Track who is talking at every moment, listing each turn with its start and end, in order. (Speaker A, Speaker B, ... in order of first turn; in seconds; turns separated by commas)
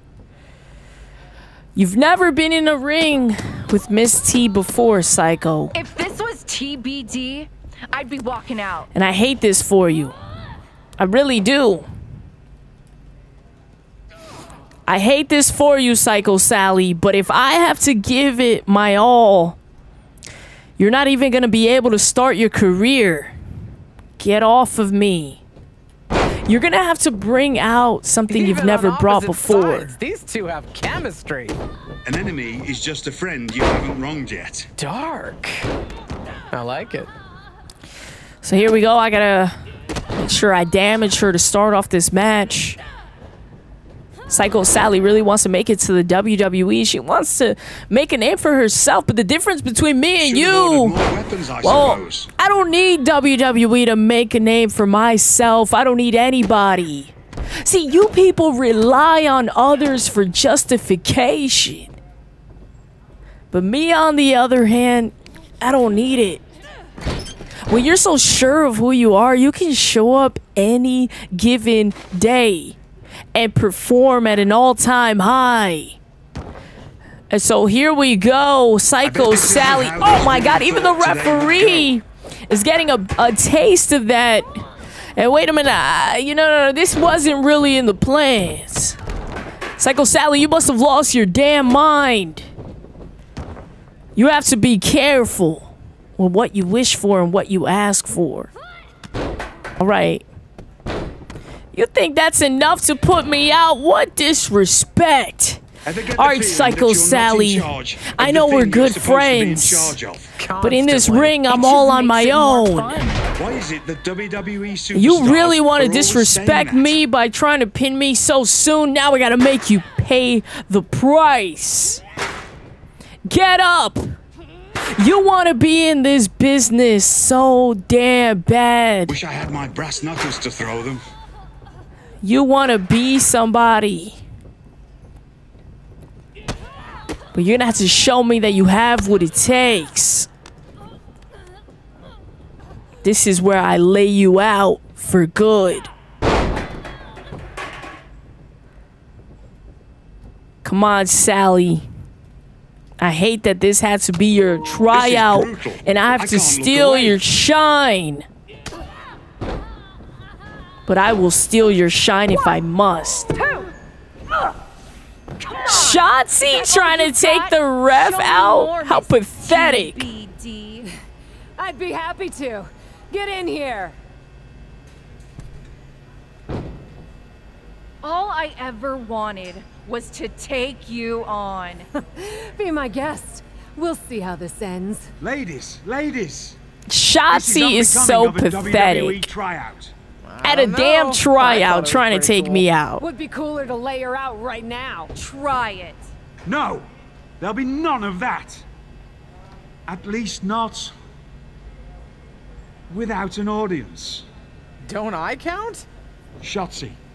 Speaker A: 1.8-5.8, Speaker B: 5.7-8.9, Speaker A: 8.9-10.2, Speaker A: 11.0-11.9, Speaker A: 14.9-19.6, Speaker A: 20.8-23.4, Speaker A: 24.2-25.4, Speaker A: 26.5-29.9, Speaker C: 28.3-31.6, Speaker D: 32.0-34.7, Speaker C: 34.8-35.6, Speaker C: 36.5-37.1, Speaker A: 38.4-39.5, Speaker A: 40.1-42.8, Speaker A: 44.3-51.0, Speaker D: 50.2-52.3, Speaker A: 51.6-62.0, Speaker A: 63.5-66.4, Speaker A: 67.7-72.8, Speaker A: 73.3-76.0, Speaker A: 77.3-84.5, Speaker D: 79.0-81.9, Speaker A: 85.2-89.0, Speaker A: 89.8-92.5, Speaker A: 94.2-98.5, Speaker A: 99.8-100.2, Speaker A: 101.7-105.6, Speaker D: 105.8-110.3, Speaker A: 106.2-110.0, Speaker C: 110.4-111.5, Speaker A: 110.6-113.0, Speaker B: 111.4-113.2, Speaker D: 113.3-117.0, Speaker A: 114.9-122.0, Speaker A: 123.2-124.1, Speaker A: 125.0-129.2, Speaker D: 129.1-131.0, Speaker A: 132.2-134.2, Speaker A: 137.3-140.3, Speaker A: 143.0-145.9, Speaker A: 150.6-151.8, Speaker A: 153.0-158.2, Speaker D: 154.9-157.2, Speaker A: 160.9-163.3, Speaker B: 162.3-162.6, Speaker B: 163.3-163.7, Speaker B: 165.4-170.9, Speaker A: 165.6-170.1, Speaker E: 171.6-174.0, Speaker B: 178.0-181.9, Speaker E: 181.9-185.1, Speaker D: 185.2-186.6, Speaker A: 186.9-189.3, Speaker D: 187.3-189.9, Speaker C: 190.2-192.7, Speaker A: 190.4-193.0, Speaker E: 193.0-195.1, Speaker B: 195.1-196.1, Speaker D: 196.4-196.8, Speaker D: 197.4-198.6, Speaker D: 199.9-200.9, Speaker D: 202.9-204.2, Speaker C: 204.8-205.9, Speaker D: 206.4-207.0